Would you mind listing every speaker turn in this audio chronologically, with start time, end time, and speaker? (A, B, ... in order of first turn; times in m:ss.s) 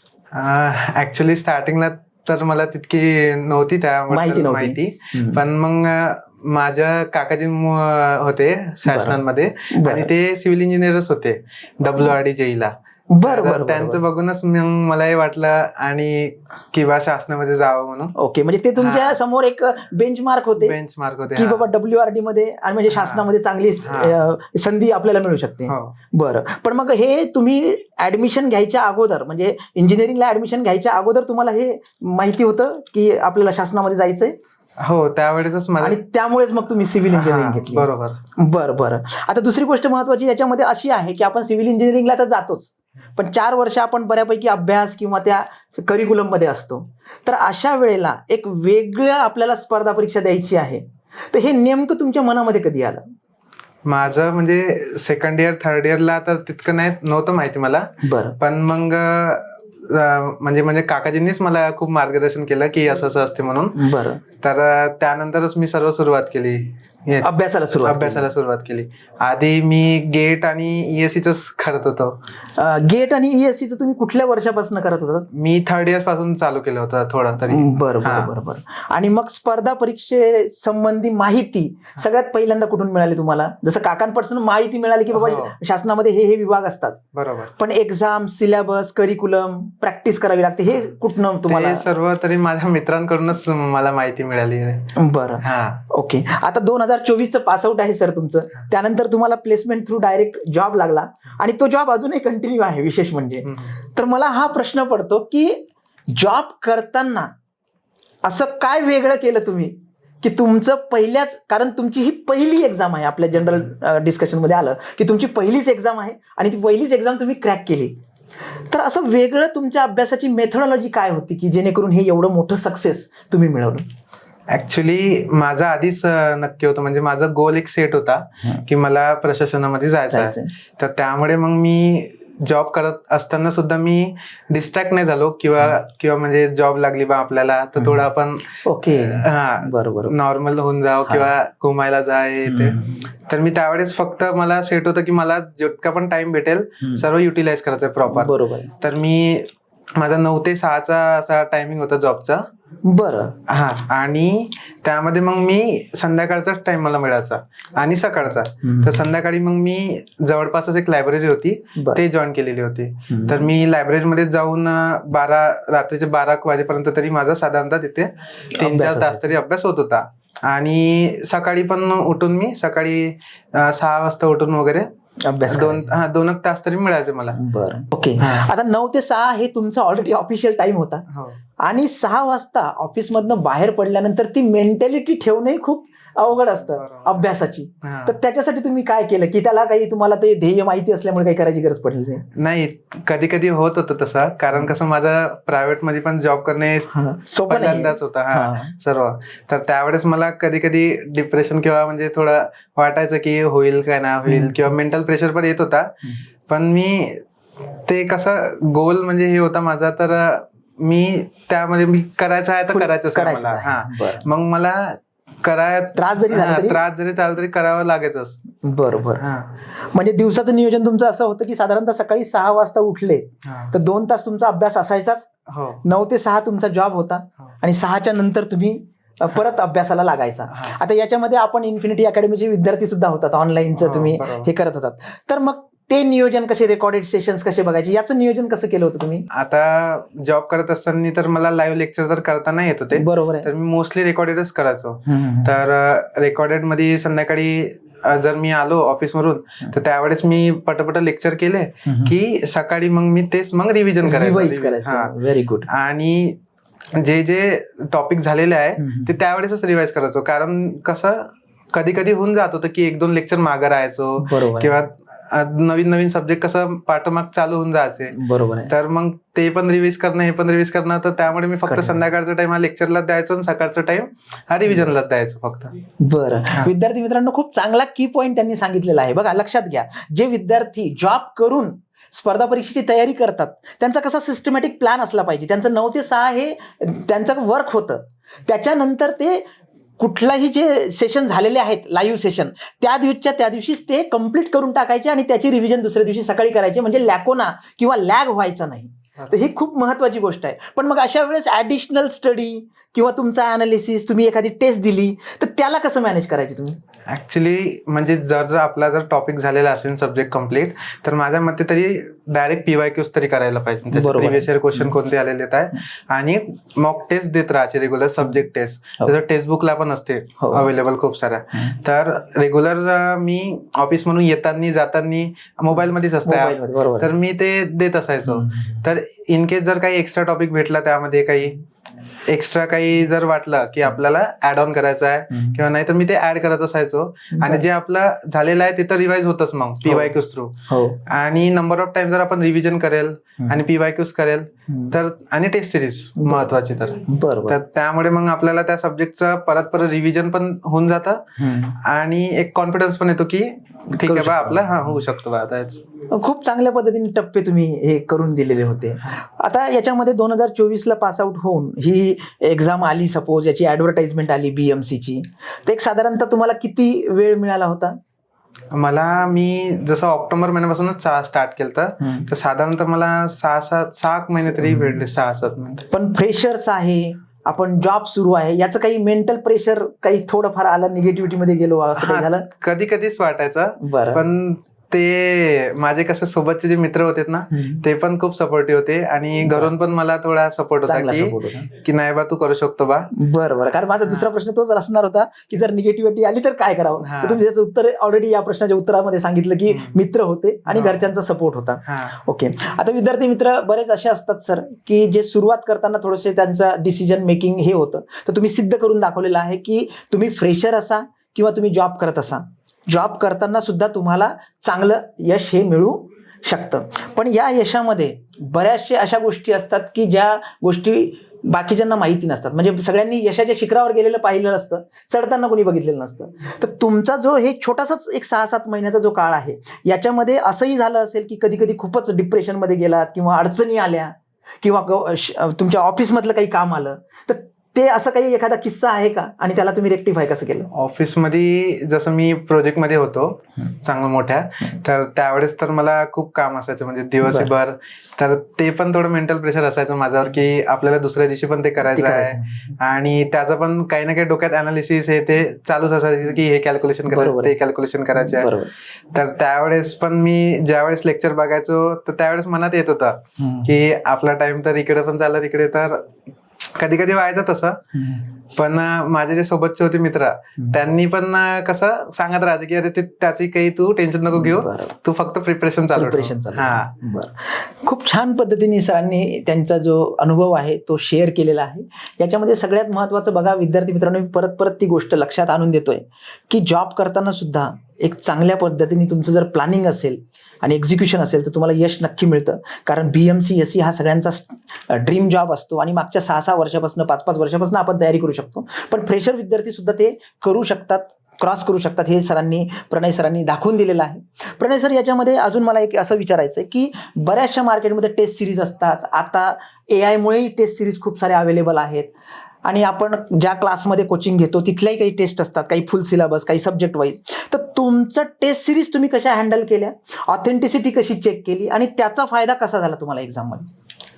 0:00.3-0:18.1 A
0:04.1-0:05.4 B
0:08.9-0:09.2 B
0:09.7-0:10.1 B
0:13.1-0:14.0 B
0:18.2-0:20.8 B
0:18.8-0:19.2 A
0:20.6-0:21.7 A
0:21.3-0:34.4 B
0:22.9-0:23.2 A
0:23.8-0:24.2 A
0:25.7-0:25.9 A
0:34.8-0:36.0 A
0:35.8-0:53.0 B
0:37.1-0:38.2 A
0:53.9-1:03.8 A
0:58.0-0:58.4 B
1:03.8-1:04.2 B
1:04.4-1:07.3 A
1:07.2-1:08.3 B
1:07.8-1:12.2 A
1:12.6-1:15.3 B
1:15.3-1:18.3 A
1:17.4-1:27.0 B
1:25.1-1:25.6 A
1:27.1-1:27.5 A
1:27.6-1:31.9 B
1:31.5-1:35.8 A
1:35.0-1:47.3 B
1:43.5-1:43.8 A
1:48.2-1:57.9 B
1:58.6-2:03.9 B
2:04.5-2:32.4 A
2:10.1-2:10.5 B
2:17.8-2:18.0 B
2:18.6-2:20.1 B
2:22.5-2:23.0 B
2:28.1-2:28.7 B
2:32.8-2:33.4 B
2:33.5-2:54.9 A
2:38.6-2:39.0 B
2:41.8-2:42.0 B
2:43.1-2:43.5 B
2:48.6-2:49.4 B
2:55.2-2:55.9 B
2:55.5-2:57.4 A
2:57.4-3:01.0 B
2:58.2-2:58.5 A
3:01.1-3:01.4 A
3:01.6-3:12.3 B
3:06.8-3:07.2 A
3:07.8-3:08.2 A
3:12.4-3:16.9 A
3:16.9-3:18.7 B
3:17.5-3:27.2 A
3:24.3-3:24.7 B
3:27.9-3:38.4 A
3:32.7-3:34.3 B
3:36.0-3:36.8 B
3:38.6-3:39.2 B
3:39.1-3:39.6 A
3:39.8-3:45.3 B
3:43.4-3:43.8 A
3:45.5-3:45.8 A
3:45.8-3:59.3 B
3:53.7-3:54.5 A
3:59.3-4:15.1 A
4:02.9-4:03.5 B
4:05.1-4:05.6 B
4:11.9-4:12.2 B
4:14.0-4:15.7 B
4:15.7-4:16.4 A
4:16.9-4:28.2 A
4:18.8-4:19.1 B
4:24.2-4:24.7 B
4:28.1-4:28.7 B
4:28.7-4:35.7 A
4:31.7-4:32.0 B
4:36.0-4:49.4 B
4:50.0-5:06.8 B
5:07.1-5:31.6 A
5:13.9-5:15.0 B
5:20.4-5:20.7 B
5:26.3-5:27.1 B
5:28.3-5:28.7 B
5:32.3-5:55.8 A
5:35.3-5:35.6 B
5:37.3-5:37.7 B
5:39.8-5:40.2 B
5:40.7-5:41.0 B
5:44.7-5:45.0 B
5:46.2-5:47.6 B
5:51.4-5:51.8 B
5:53.9-5:55.0 B
5:56.1-6:08.0 B
6:08.7-6:15.9 A
6:12.0-6:12.3 B
6:14.4-6:15.0 B
6:15.9-6:22.5 B
6:22.0-6:33.1 A
6:23.8-6:24.2 B
6:27.5-6:27.8 B
6:29.4-6:29.7 B
6:30.8-6:31.7 B
6:33.1-7:20.7 B
6:37.0-6:37.4 A
6:39.7-6:40.0 A
6:40.7-6:41.0 A
6:41.9-6:42.2 A
7:20.7-7:38.5 A
7:27.2-7:27.5 B
7:31.9-7:32.7 B
7:37.1-7:37.5 B
7:38.1-7:38.7 B
7:39.1-7:46.1 A
7:43.4-7:43.7 B
7:46.8-7:47.8 A
7:48.0-7:48.3 B
7:48.5-7:56.9 A
7:54.3-7:55.0 B
7:56.0-8:32.1 B
8:32.6-8:43.7 B